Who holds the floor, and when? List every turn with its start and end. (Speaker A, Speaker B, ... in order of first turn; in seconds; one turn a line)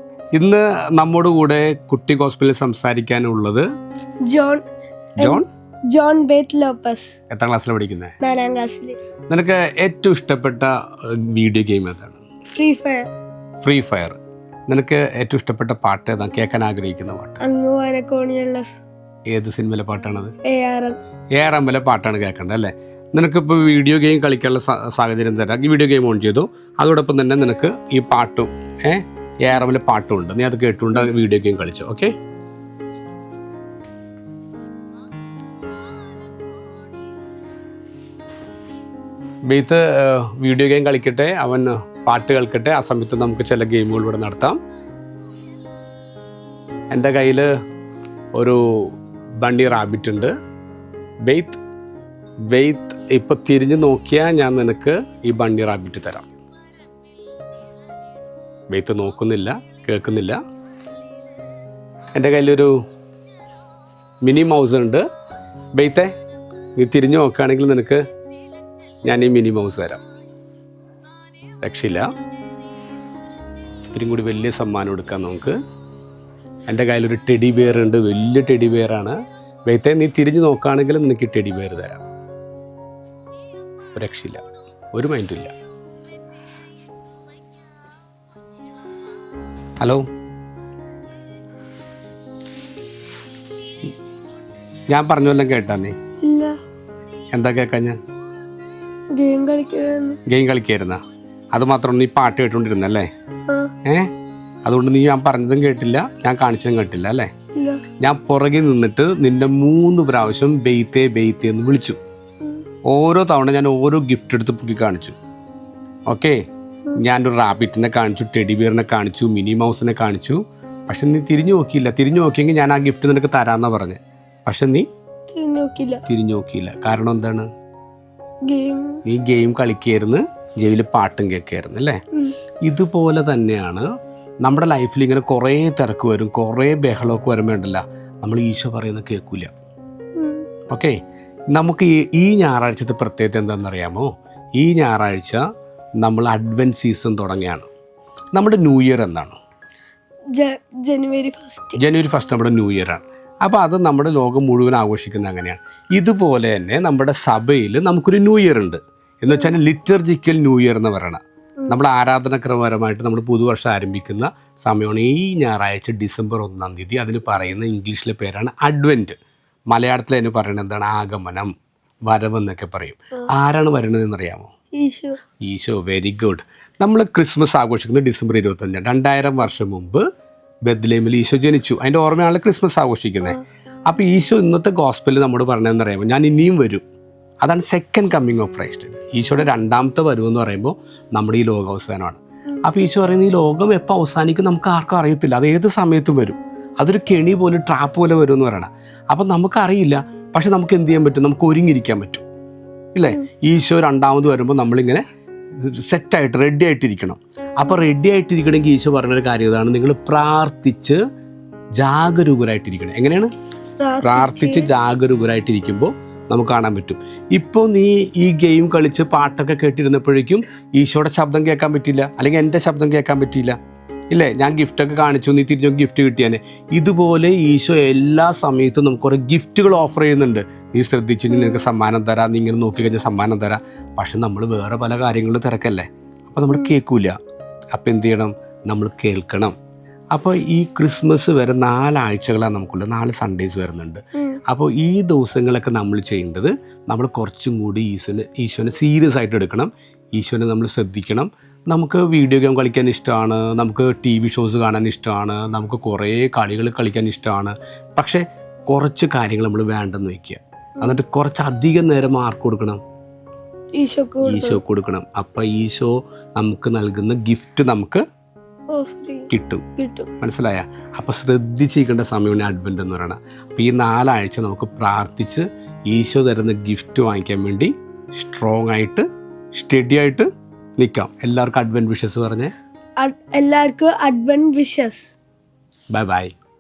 Speaker A: 0.3-3.6
Speaker B: 4.3-4.6
Speaker A: 5.2-5.5
Speaker B: 5.2-7.1
Speaker A: 7.3-8.1
Speaker B: 8.2-9.0
Speaker A: 9.3-12.2
Speaker B: 12.5-13.1
Speaker A: 13.6-17.4
Speaker B: 17.4-18.8
Speaker A: 19.3-20.3
Speaker B: 20.5-21.0
Speaker A: 21.4-32.1
Speaker A: 39.5-44.6
Speaker A: 46.9-47.5
Speaker A: 48.3-50.3
Speaker A: 51.3-51.6
Speaker A: 52.5-56.3
Speaker A: 58.7-60.4
Speaker A: 62.1-62.8
Speaker A: 64.2-65.0
Speaker A: 65.8-66.1
Speaker A: 66.8-68.0
Speaker A: 69.1-70.0
Speaker A: 71.6-72.1
Speaker A: 73.9-75.6
Speaker A: 76.7-82.0
Speaker A: 83.9-85.5
Speaker A: 89.8-90.0
Speaker A: 94.9-96.0
Speaker B: 96.2-96.6
Speaker A: 97.3-98.0
Speaker B: 99.2-100.2
Speaker A: 100.3-101.0
Speaker A: 101.5-103.1
Speaker A: 103.8-104.1
Speaker A: 104.7-107.3
Speaker B: 107.6-107.8
Speaker A: 108.0-112.0
Speaker A: 112.9-115.2
Speaker A: 116.1-116.4
Speaker A: 117.0-124.8
Speaker B: 125.3-126.0
Speaker A: 126.1-127.5
Speaker B: 128.5-129.0
Speaker A: 129.1-132.0
Speaker A: 132.7-133.9
Speaker A: 134.4-139.5
Speaker B: 140.2-140.5
Speaker A: 140.7-141.0
Speaker A: 141.5-145.4
Speaker A: 146.0-147.7
Speaker A: 148.3-149.4
Speaker B: 150.3-151.8
Speaker A: 151.8-169.2
Speaker A: 169.7-171.5
Speaker A: 172.1-174.5
Speaker B: 174.8-175.2
Speaker A: 175.4-180.1
Speaker A: 180.7-186.8
Speaker A: 187.4-202.2
Speaker A: 202.9-205.0
Speaker A: 205.6-211.0
Speaker A: 211.8-213.3
Speaker B: 213.8-214.7
Speaker A: 214.0-223.6
Speaker A: 224.1-237.2
Speaker A: 237.7-239.5
Speaker A: 240.1-262.8
Speaker B: 263.8-264.6
Speaker A: 264.2-268.0
Speaker B: 268.7-270.1
Speaker A: 269.3-269.6
Speaker A: 270.2-282.5
Speaker B: 283.0-285.1
Speaker A: 285.9-286.3